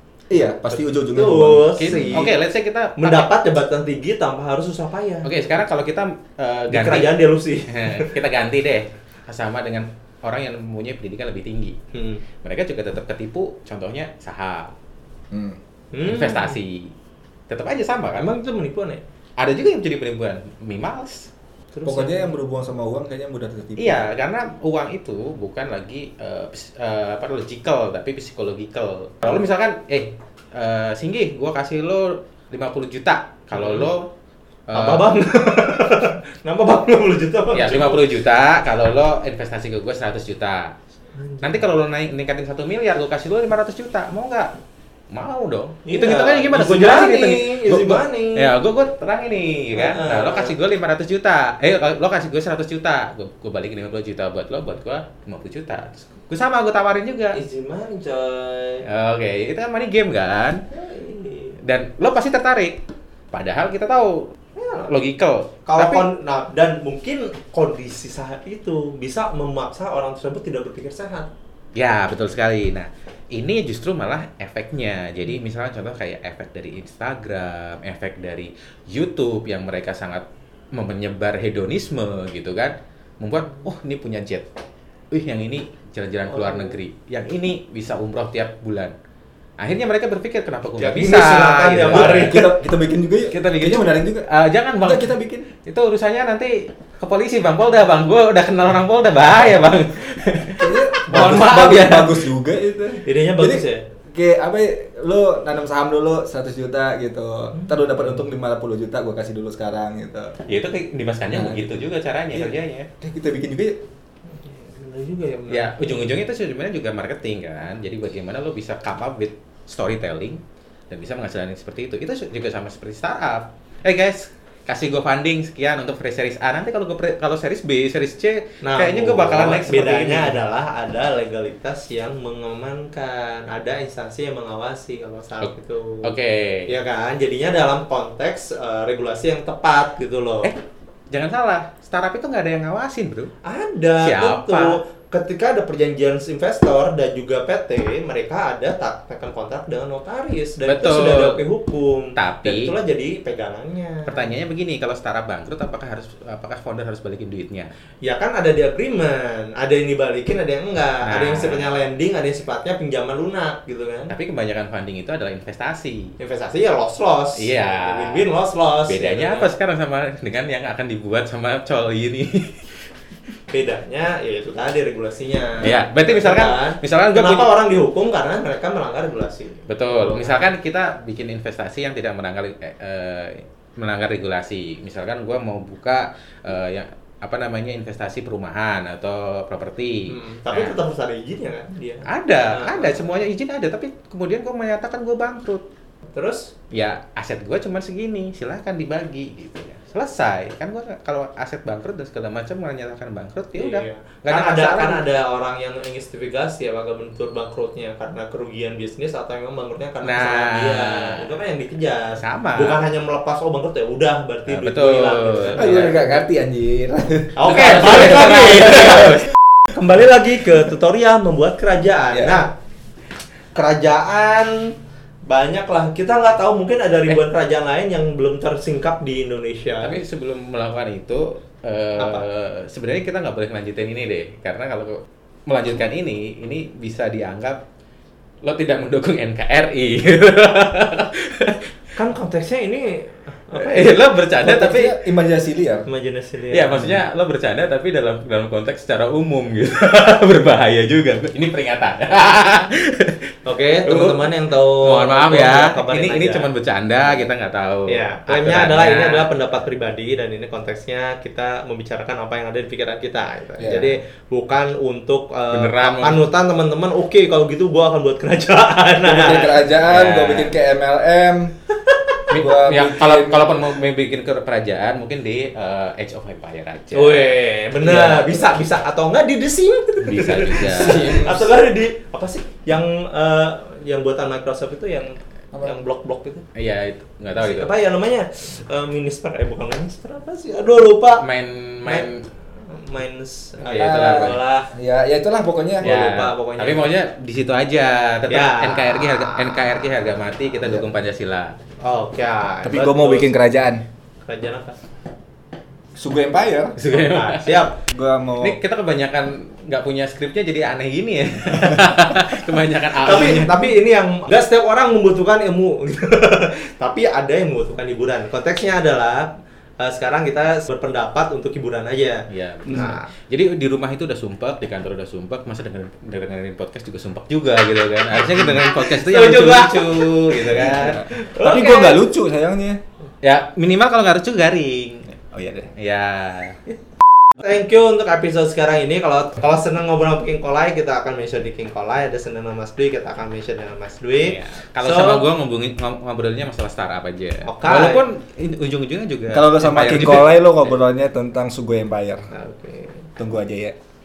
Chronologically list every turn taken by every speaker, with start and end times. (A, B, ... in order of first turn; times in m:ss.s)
0:00.3-0:02.3 A
0:00.7-0:02.4 B
0:01.8-0:03.3 C
0:03.0-0:05.3 B
0:05.2-0:11.8 C
0:06.7-0:08.1 B
0:11.9-0:12.2 B
0:12.4-0:14.7 C
0:15.3-0:15.6 A
0:15.9-0:16.6 B
0:16.0-0:16.9 C
0:17.5-0:18.3 C
0:18.2-0:19.0 B
0:19.4-0:21.3 C
0:21.7-0:22.3 B
0:21.8-0:24.1 A
0:23.8-0:34.1 C
0:33.5-0:33.9 B
0:34.7-0:35.1 C
0:34.7-0:38.1 B
0:37.5-0:40.7 C
0:41.2-0:41.6 B
0:41.4-0:44.5 C
0:45.1-0:57.4 C
0:45.8-0:48.5 B
0:49.7-0:50.5 B
0:57.3-0:58.8 B
0:58.8-1:00.6 C
1:00.7-1:01.6 B
1:01.6-1:02.8 C
1:03.3-1:06.0 C
1:04.6-1:04.9 B
1:05.6-1:11.3 B
1:11.7-1:24.4 C
1:25.1-1:28.9 C
1:26.3-1:26.8 B
1:29.6-1:32.4 C
1:30.8-1:32.4 B
1:31.9-1:34.3 A
1:33.3-1:35.1 C
1:34.8-1:35.5 A
1:35.6-1:42.2 C
1:40.6-1:50.3 A
1:43.0-1:43.8 B
1:47.5-1:48.2 B
1:50.5-1:52.9 C
1:51.3-1:51.7 A
1:53.0-1:53.8 A
1:54.3-1:55.7 B
1:55.5-2:10.4 C
2:08.6-2:16.1 B
2:16.0-2:16.7 C
2:16.7-2:20.5 B
2:21.1-2:23.3 C
2:23.4-2:34.3 B
2:24.0-2:24.8 C
2:30.6-2:31.4 C
2:32.2-2:32.7 C
2:34.1-2:37.7 C
2:38.0-2:44.1 B
2:41.0-2:41.7 C
2:44.1-2:46.1 C
2:46.2-2:49.5 B
2:47.4-2:48.2 C
2:48.9-2:52.6 C
2:53.5-3:00.5 B
2:55.6-2:57.5 C
2:59.7-3:10.8 C
3:10.1-3:13.0 B
3:12.1-3:15.6 C
3:16.1-3:16.5 B
3:16.7-3:25.0 C
3:23.6-3:36.2 B
3:30.0-3:31.3 C
3:32.2-3:32.8 C
3:34.5-3:36.1 C
3:35.5-3:39.1 A
3:37.4-3:42.5 B
3:37.4-3:39.2 C
3:42.1-3:42.4 A
3:43.5-3:44.7 B
3:45.2-3:50.0 B
3:49.8-3:57.6 C
3:52.0-3:52.2 B
3:58.4-4:01.6 C
4:02.0-4:03.9 B
4:03.5-4:04.9 C
4:04.4-4:05.8 A
4:05.8-4:07.0 B
4:06.5-4:13.3 C
4:13.4-4:16.5 B
4:13.8-4:19.3 C
4:17.9-4:29.6 B
4:23.6-4:23.9 A
4:25.5-4:26.2 C
4:29.0-4:31.5 A
4:29.9-4:30.5 C
4:32.3-4:37.4 C
4:32.3-4:33.5 A
4:36.9-4:46.4 B
4:37.9-4:38.2 A
4:37.9-4:38.2 C
4:40.0-4:41.5 C
4:40.9-4:41.4 A
4:46.5-4:47.7 C
4:47.4-4:51.2 B
4:51.2-4:52.2 C
4:51.8-4:52.1 B
4:52.6-4:54.7 B
4:53.6-4:54.4 C
4:53.8-4:55.9 A
4:55.8-4:56.9 B
4:55.8-5:01.6 C
4:58.3-4:59.8 B
5:01.8-5:03.3 B
5:02.6-5:03.8 A
5:04.2-5:04.8 B
5:05.9-5:06.8 A
5:06.8-5:07.6 C
5:06.8-5:07.8 B
5:07.9-5:08.6 A
5:08.4-5:13.5 C
5:13.0-5:23.1 B
5:22.3-5:31.0 C
5:28.3-5:32.0 B
5:30.6-5:32.8 A
5:33.2-5:35.2 C
5:35.3-5:35.7 A
5:35.7-5:36.7 C
5:37.4-5:45.3 B
5:44.2-5:50.4 C
5:47.4-5:48.0 B
5:49.3-5:52.3 A
5:52.3-5:53.1 B
5:53.2-5:53.8 A